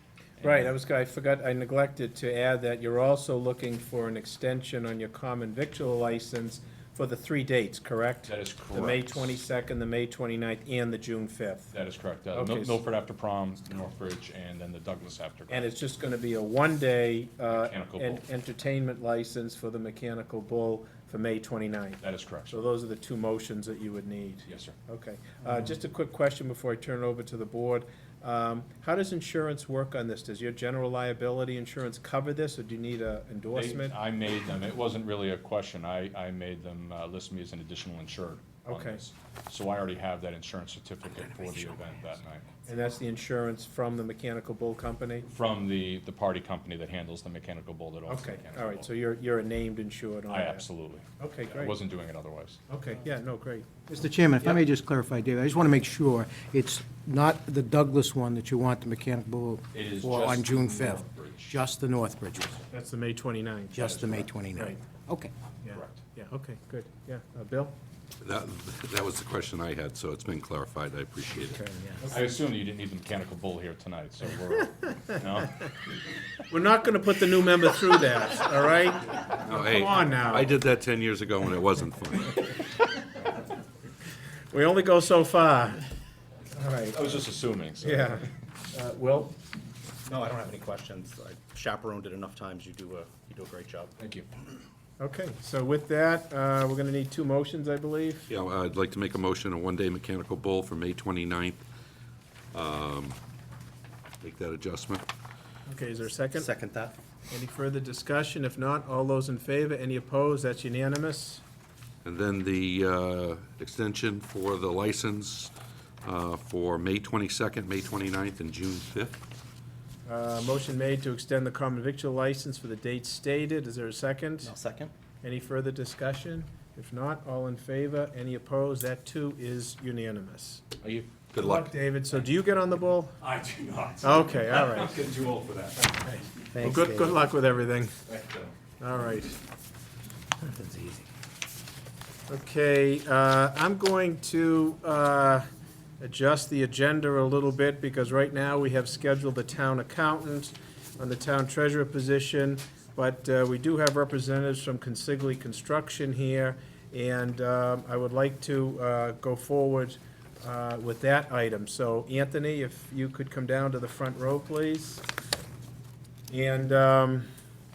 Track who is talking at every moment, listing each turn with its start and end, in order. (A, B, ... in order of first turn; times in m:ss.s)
0:00.4-0:00.7 A
0:00.4-0:11.7 B
0:08.3-0:09.4 A
0:11.7-0:15.7 A
0:12.3-0:12.8 B
0:15.5-0:34.0 B
0:17.5-0:18.2 A
0:22.0-0:22.6 A
0:24.5-0:24.8 A
0:33.6-0:42.5 A
0:38.7-0:39.0 B
0:42.7-0:45.3 B
0:45.3-0:48.9 A
0:48.1-0:50.6 B
0:50.3-0:52.6 A
0:51.2-0:51.8 B
0:52.7-0:53.9 B
0:53.9-1:02.5 C
0:59.7-1:01.6 A
1:02.7-1:04.0 B
1:03.7-1:05.3 C
1:03.8-1:04.3 A
1:04.6-1:04.8 B
1:05.6-1:07.8 B
1:05.7-1:06.0 A
1:08.2-1:11.6 D
1:11.6-1:12.0 C
1:12.0-1:15.6 A
1:16.5-1:20.5 B
1:19.4-1:22.5 D
1:24.5-1:25.8 B
1:26.6-1:27.0 B
1:26.9-1:28.2 A
1:27.8-1:29.4 B
1:30.1-1:33.9 E
1:34.0-1:34.3 A
1:35.0-1:38.3 B
1:38.3-1:41.6 D
1:42.5-1:43.2 D
1:44.2-1:45.0 D
1:45.7-1:46.5 B
1:46.4-1:47.0 E
1:47.3-1:51.4 B
1:52.0-1:55.5 D
1:56.0-1:59.2 D
2:00.1-2:04.5 B
2:04.4-2:04.9 E
2:05.2-2:10.7 B
2:10.8-2:11.1 A
2:11.3-2:11.6 D
2:11.4-2:13.2 B
2:13.2-2:16.2 A
2:14.0-2:15.0 B
2:16.1-2:17.9 B
2:16.6-2:17.2 C
2:18.1-2:18.5 A
2:18.8-2:19.4 B
2:20.4-2:21.0 C
2:22.3-2:25.4 B
2:26.0-2:45.0 B
2:46.3-2:47.3 B